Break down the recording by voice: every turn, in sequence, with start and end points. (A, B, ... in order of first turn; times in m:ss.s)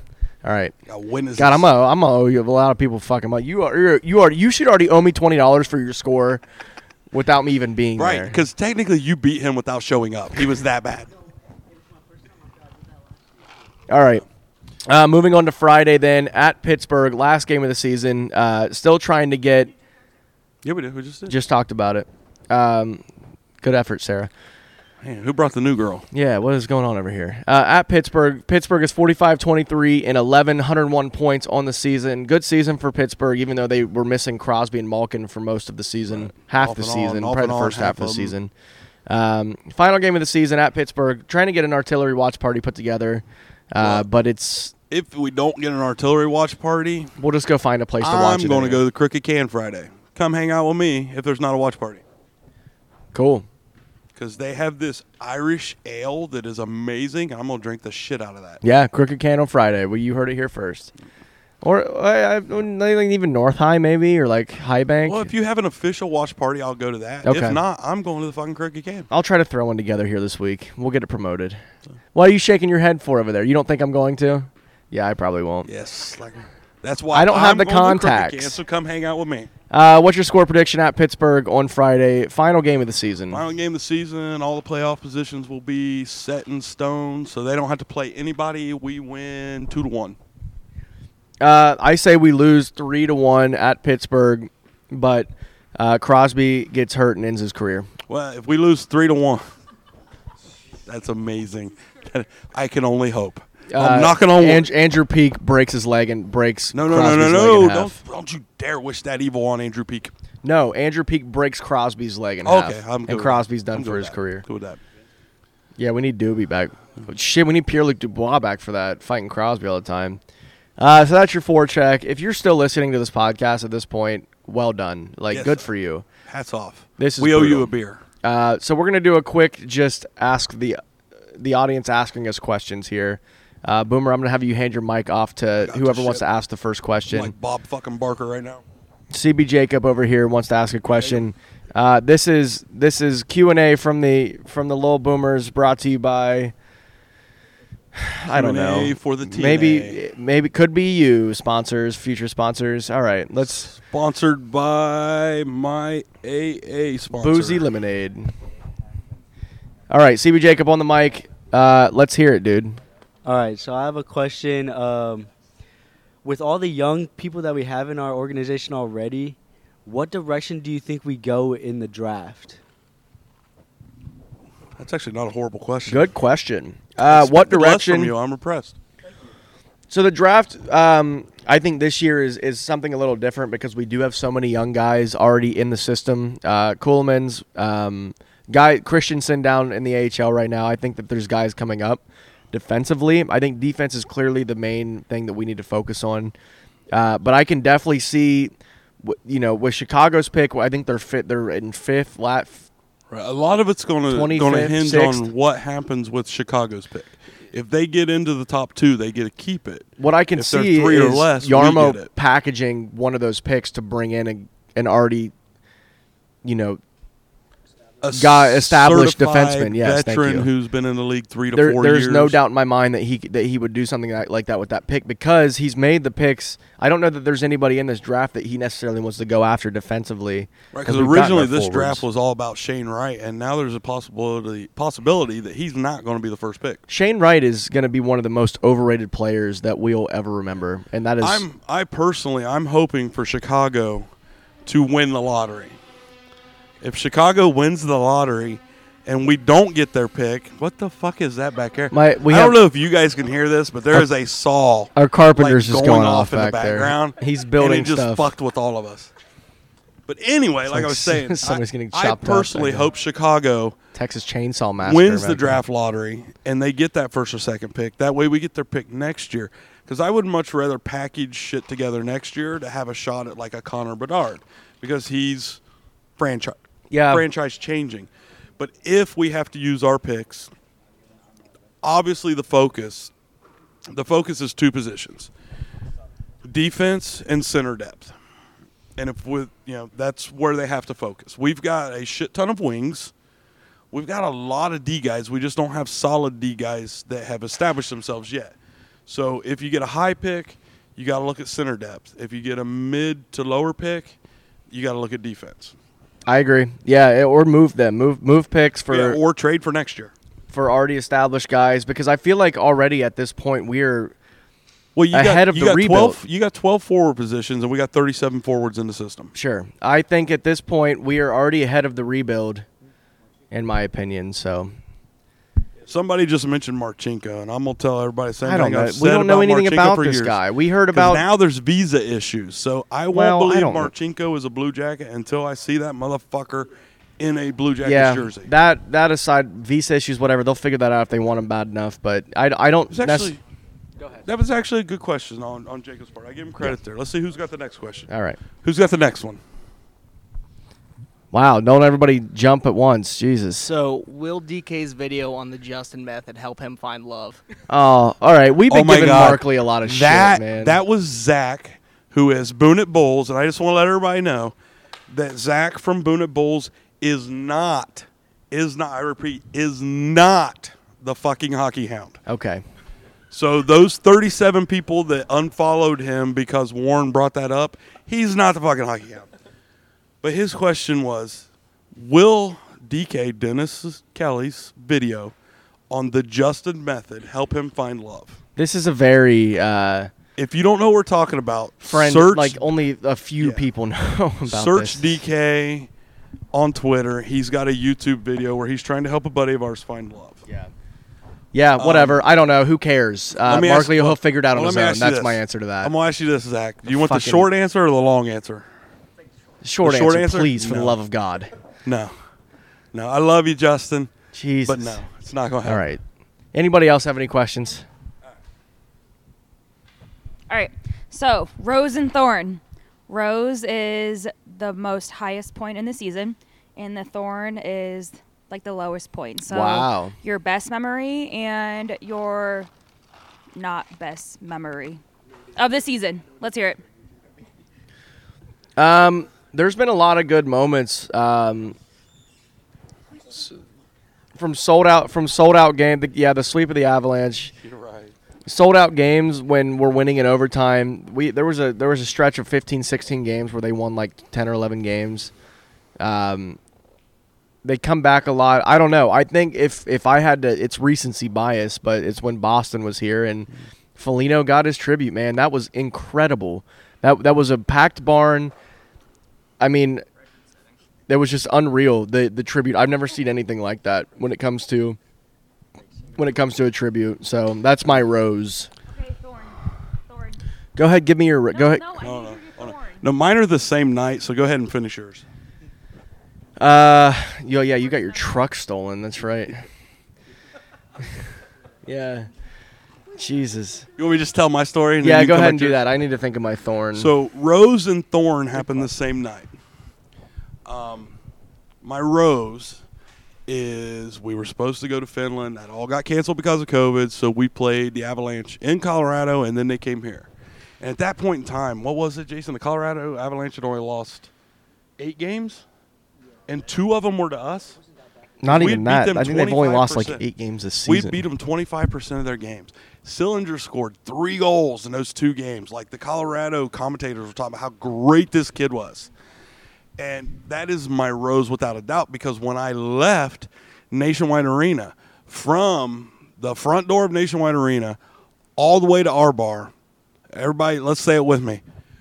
0:00.4-0:00.7 A
0:00.8-0:01.7 B
0:01.4-0:06.4 A
0:07.1-0:08.4 A
0:08.0-0:11.1 B
0:13.9-0:14.2 A
0:14.8-0:19.7 A
0:20.6-0:21.3 B
0:21.3-0:23.0 A
0:23.6-0:24.3 A
0:25.0-0:26.0 B
0:26.1-0:38.5 A
0:36.1-0:38.4 B
0:39.1-0:44.7 A
0:43.8-0:44.0 B
0:44.9-0:47.1 B
0:47.2-0:48.8 A
0:48.0-0:52.0 B
0:53.1-0:53.4 A
0:54.1-0:58.6 B
0:58.6-1:00.9 A
1:01.6-1:05.3 A
1:05.0-1:09.1 B
1:07.2-1:07.6 A
1:09.1-1:11.6 A
1:12.1-1:15.7 A
1:15.6-1:19.5 B
1:17.1-1:18.6 A
1:19.7-1:23.4 A
1:23.3-1:30.2 B
1:31.4-1:37.9 A
1:38.1-1:39.4 B
1:40.8-1:44.7 B
1:43.7-1:48.0 A
1:46.7-1:50.1 B
1:50.4-1:54.4 A
1:52.4-1:54.8 B
1:55.8-2:00.2 A
2:00.8-2:06.0 A
2:05.3-2:05.7 B
2:06.2-2:08.0 B
2:07.0-2:07.7 A
2:08.2-2:10.8 A
2:11.4-2:17.3 A
2:15.6-2:16.2 B
2:17.1-2:18.6 B
2:19.1-2:26.5 A
2:27.9-2:33.7 A
2:28.3-2:30.0 B
2:33.4-2:37.6 B
2:37.2-2:38.3 A
2:39.9-2:42.8 A
2:43.2-2:45.3 C
2:46.2-2:52.6 C
2:54.8-2:56.1 B
2:55.9-2:58.1 A
2:57.0-2:58.8 B
2:59.9-3:16.3 A
3:16.9-3:22.7 A
3:23.1-3:32.1 B
3:24.1-3:25.3 A
3:30.0-3:35.3 A
3:36.4-3:36.8 A
3:38.0-3:42.4 B
3:38.1-3:40.5 A
3:41.5-3:52.0 A
3:50.7-3:56.8 B
3:56.9-4:01.4 A
4:01.2-4:04.1 B
4:04.6-4:05.8 B
4:06.8-4:19.1 B
4:11.9-4:12.6 A
4:15.0-4:18.3 A
4:20.1-4:23.8 B
4:20.7-4:22.9 A
4:23.9-4:25.6 A
4:24.8-4:35.6 B
4:36.2-4:40.5 B
4:36.9-4:37.2 A
4:41.8-4:43.1 B
4:43.9-4:45.3 B
4:46.4-4:48.1 B
4:49.0-4:53.1 B
4:53.9-5:04.2 B
5:04.7-5:05.8 B
5:06.3-5:09.2 A
5:08.9-5:10.1 B
5:10.5-5:14.1 A
5:14.9-5:19.3 B
5:15.1-5:16.2 A
5:19.3-5:22.6 A
5:23.5-5:24.7 A
5:25.8-5:30.4 B
5:28.4-5:31.2 A
5:30.9-5:38.5 B
5:33.1-5:33.9 A
5:37.8-5:43.3 A
5:42.9-5:43.4 B
5:44.2-5:48.1 B
5:48.1-5:48.4 A
5:48.6-5:49.4 B
5:51.3-5:53.7 A
5:53.6-5:57.4 D
5:57.7-6:00.8 A
5:58.7-6:04.5 B
6:05.1-6:12.2 B
6:12.3-6:12.6 A
6:13.3-6:19.3 B
6:20.2-6:25.3 B
6:25.9-6:28.4 B
6:28.6-6:30.1 A
6:30.4-6:32.6 B
6:31.8-6:35.2 A
6:33.4-6:33.6 B
6:34.4-6:35.9 B
6:36.5-6:40.4 B
6:41.5-6:45.9 A
6:41.8-6:42.2 B
6:43.4-6:48.7 B
6:46.8-6:47.5 A
6:49.6-6:51.5 A
6:49.8-6:51.0 B
6:51.8-6:52.1 B
6:52.9-6:54.1 B
6:54.3-6:55.0 A
6:54.6-6:55.8 B
6:55.6-6:56.0 A
6:56.5-6:57.8 A
7:00.5-7:12.7 E
7:09.5-7:10.1 A
7:13.5-7:15.0 E
7:15.6-7:16.8 E
7:18.8-7:21.8 A
7:24.4-7:27.5 A
7:27.6-7:28.1 B
7:28.5-7:35.3 A
7:36.0-7:36.6 A
7:37.6-7:48.5 A
7:49.6-7:50.0 A
7:51.1-7:55.0 A
7:56.1-7:58.7 A
7:58.9-8:00.4 E
8:00.8-8:01.9 A
8:01.5-8:03.0 E
8:02.0-8:05.2 B
8:06.6-8:09.6 A
8:11.8-8:12.3 A
8:13.2-8:13.9 A
8:14.0-8:15.9 B
8:15.0-8:17.1 A
8:16.9-8:19.5 B
8:20.6-8:21.2 B
8:21.8-8:22.8 B
8:23.5-8:34.3 B
8:35.0-8:35.6 B
8:36.5-8:37.8 B
8:38.4-8:41.2 A
8:38.4-8:40.2 B
8:40.8-8:49.1 B
8:50.0-8:58.0 B
8:58.6-8:59.7 B
9:00.3-9:01.6 B